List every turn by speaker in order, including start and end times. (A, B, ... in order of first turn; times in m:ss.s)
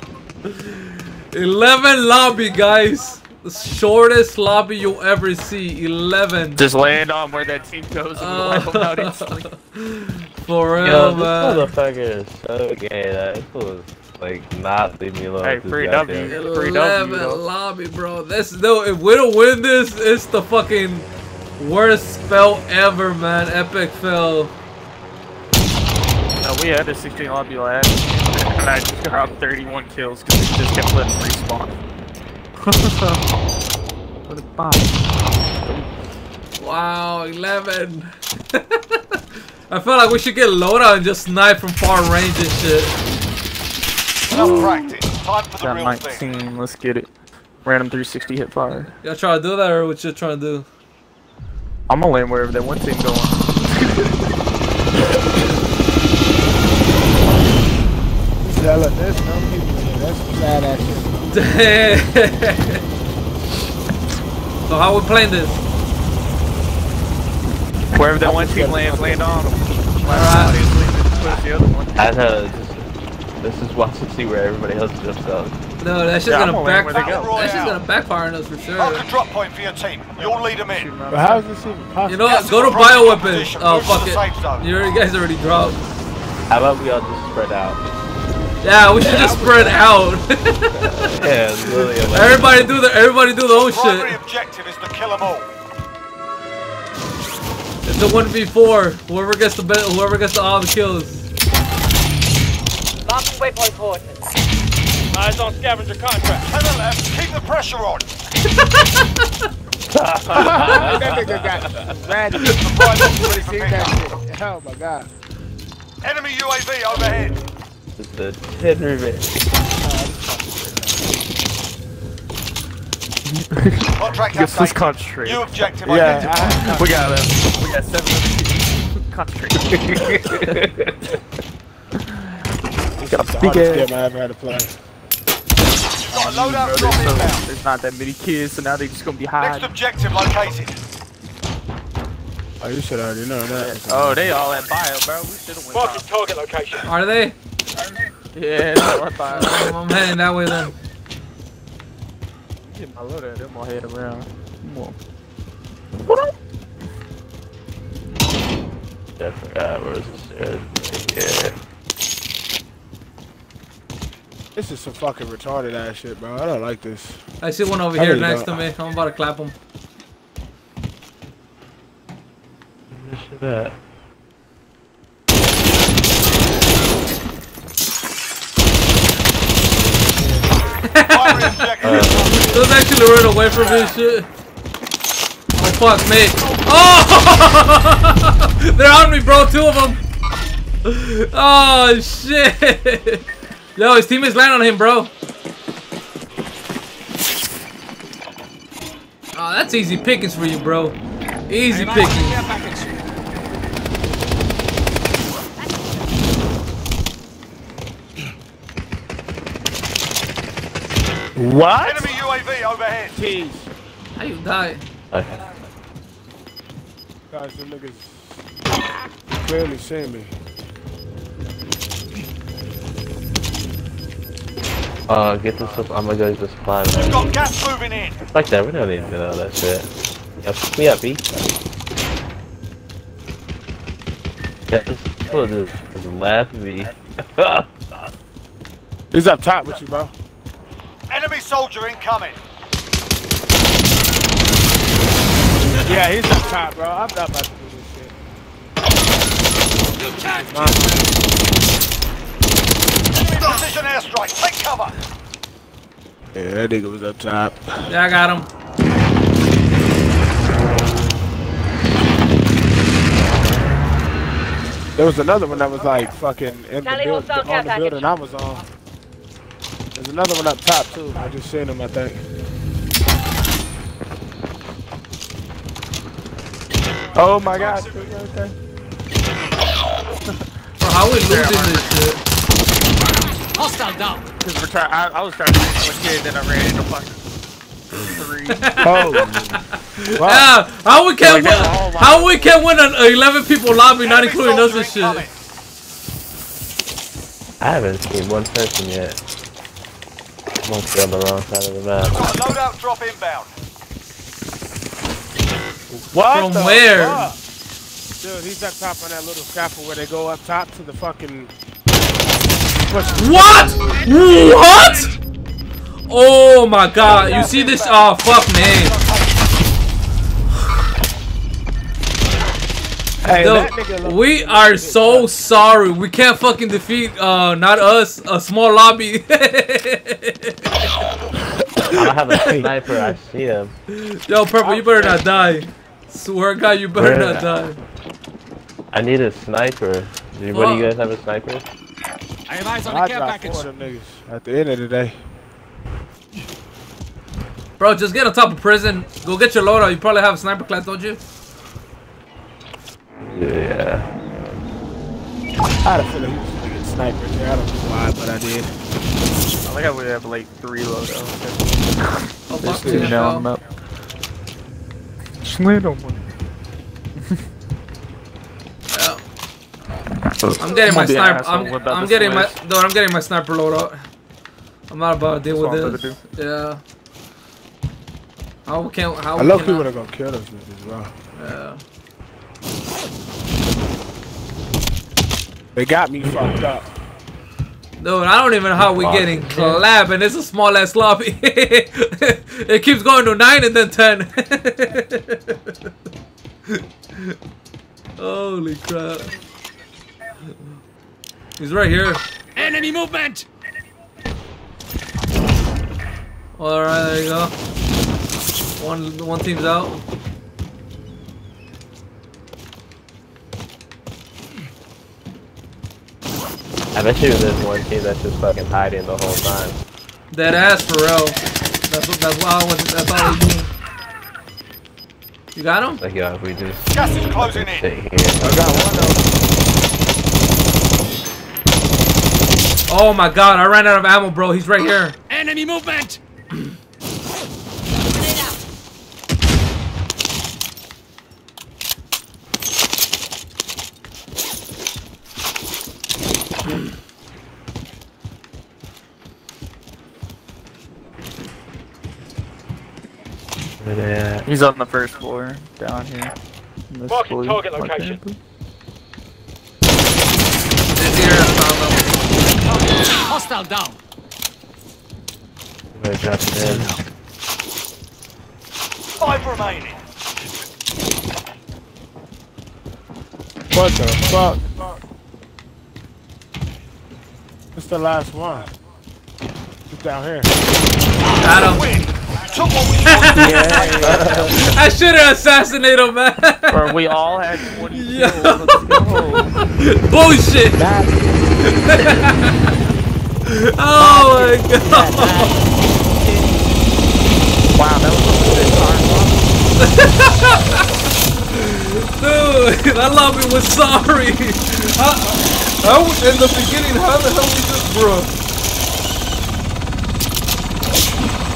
0:00.4-0:06.6 A
0:06.6-0:09.4 B
0:08.2-0:11.7 A
0:10.8-0:16.4 C
0:15.4-0:17.4 B
0:16.2-0:24.5 A
0:26.4-0:31.8 B
0:32.6-0:33.2 B
0:34.3-0:35.0 B
0:35.6-0:35.9 B
0:36.6-0:42.9 A
0:44.3-0:46.3 D
0:44.3-0:44.8 C
0:44.4-0:44.8 B
0:45.6-0:47.1 B
0:47.6-0:48.9 B
0:49.0-0:50.6 A
0:51.9-0:53.9 B
0:58.4-1:01.3 E
1:01.3-1:02.8 A
1:04.7-1:05.6 A
1:07.9-1:12.1 B
1:08.2-1:09.3 E
1:10.1-1:10.6 A
1:12.0-1:12.9 C
1:13.4-1:15.6 C
1:15.8-1:19.1 A
1:16.3-1:17.4 B
1:16.9-1:17.8 D
1:18.8-1:21.0 D
1:20.2-1:21.4 B
1:21.0-1:22.5 E
1:22.1-1:25.8 A
1:22.2-1:24.6 D
1:26.5-1:27.9 C
1:28.6-1:30.9 A
1:29.0-1:29.9 E
1:30.8-1:32.7 C
1:31.9-1:34.2 A
1:33.5-1:35.5 D
1:37.8-1:41.3 A
1:43.0-1:44.2 F
1:45.1-1:46.5 F
1:46.4-1:48.1 D
1:49.9-1:51.8 C
1:50.3-1:55.1 E
1:52.5-1:54.0 D
1:56.0-1:57.4 D
1:58.0-1:59.3 C
1:59.8-2:01.1 E
2:03.2-2:10.6 B
2:04.0-2:06.5 D
2:05.8-2:07.3 E
2:09.8-2:10.9 C
2:13.0-2:14.8 E
2:13.1-2:13.9 B
2:16.0-2:17.4 D
2:16.0-2:19.7 B
2:19.4-2:20.8 D
2:22.6-2:24.4 E
2:23.5-2:26.1 B
2:25.7-2:26.9 D
2:26.8-2:27.3 A
2:28.3-2:29.7 B
2:29.3-2:30.7 A
2:32.6-2:35.0 B
2:39.2-2:41.6 C
2:44.5-2:47.2 E
2:47.4-2:49.5 A
2:47.9-2:48.7 E
2:52.9-2:53.7 C
2:59.7-3:00.5 C
3:00.8-3:04.3 A
3:01.0-3:02.4 D
3:01.8-3:02.7 C
3:05.6-3:10.0 A
3:10.8-3:13.2 A
3:13.8-3:15.1 A
3:19.3-3:21.0 A
3:21.5-3:22.5 A
3:21.7-3:23.0 F
3:31.4-3:32.1 E
3:31.8-3:33.2 D
3:33.1-3:33.7 E
3:34.2-3:34.8 A
3:35.1-3:35.4 C
3:37.3-3:38.4 E
3:39.4-3:40.3 E
3:45.1-3:47.3 C
3:46.9-3:48.2 D
3:48.3-3:49.9 C
3:50.4-3:51.3 C
3:54.7-3:57.7 C
3:59.1-4:00.1 E
4:01.1-4:02.4 D
4:05.7-4:08.1 E
4:10.2-4:11.0 E
4:13.1-4:15.0 D
4:16.3-4:17.6 E
4:17.9-4:18.5 A
4:25.0-4:28.6 E
4:26.8-4:28.1 F
4:29.9-4:32.2 E
4:37.1-4:38.5 E
4:40.8-4:42.2 A
4:41.2-4:42.0 B
4:43.5-4:44.2 F
4:44.3-4:47.2 B
4:47.9-4:49.1 B
4:48.6-4:49.3 A
4:48.8-4:49.6 E
4:50.0-4:55.3 A
4:50.2-4:50.5 E
4:51.2-4:52.6 B
4:54.0-4:55.3 D
4:57.6-4:59.2 C
5:00.6-5:02.3 C
5:02.0-5:03.5 D
5:05.9-5:07.4 E
5:06.3-5:07.3 A
5:08.2-5:11.5 E
5:12.8-5:13.9 E
5:13.1-5:15.1 A
5:16.1-5:19.0 A
5:17.0-5:18.1 E
5:18.6-5:19.4 D
5:23.2-5:25.3 E
5:23.3-5:30.9 A
5:31.8-5:33.7 C
5:33.9-5:37.8 A
5:34.6-5:35.5 E
5:36.9-5:37.6 C
5:38.9-5:41.7 C
5:40.5-5:40.9 A
5:42.5-5:43.7 F
5:42.8-5:45.2 E
5:47.8-5:51.2 A
5:53.2-5:54.1 C
5:55.8-5:58.7 E
5:59.6-6:03.6 B
6:02.5-6:03.5 A
6:02.8-6:03.2 E
6:05.4-6:06.2 B
6:08.9-6:09.2 A
6:10.4-6:12.6 B
6:10.6-6:14.0 A
6:14.9-6:16.8 A
6:15.5-6:16.2 B
6:18.6-6:19.9 A
6:19.4-6:21.1 E
6:21.3-6:21.8 A
6:25.7-6:26.9 E
6:28.0-6:35.9 A
6:28.8-6:29.8 C
6:36.7-6:37.4 A
6:38.2-6:39.3 A
6:41.6-6:42.2 A
6:42.5-6:43.5 F
6:46.6-6:47.5 A
6:48.8-6:50.0 A
6:56.9-6:59.8 C
7:00.3-7:03.7 A
7:05.5-7:06.0 A
7:06.0-7:09.2 C
7:06.9-7:07.9 D
7:08.4-7:09.2 B
7:12.9-7:15.2 A
7:15.3-7:16.2 F
7:33.8-7:34.5 C
7:34.4-7:36.3 B
7:36.9-7:38.4 B
7:37.1-7:38.2 F
7:40.9-7:42.2 A
7:43.0-7:44.0 F
7:45.9-7:47.0 C
7:46.7-7:47.0 F
7:49.2-7:50.0 D
7:53.7-7:54.8 E
7:57.7-7:58.7 E
7:59.9-8:00.5 E
8:01.4-8:01.9 A
8:01.6-8:03.9 D
8:03.0-8:06.8 A
8:03.3-8:04.5 E
8:04.0-8:04.5 C
8:06.7-8:09.5 B
8:07.9-8:09.2 A
8:09.8-8:10.9 A
8:10.8-8:11.5 E
8:11.7-8:12.7 A
8:13.4-8:15.5 A
8:13.9-8:16.5 E
8:17.7-8:19.6 B
8:19.8-8:20.8 A
8:21.5-8:28.3 A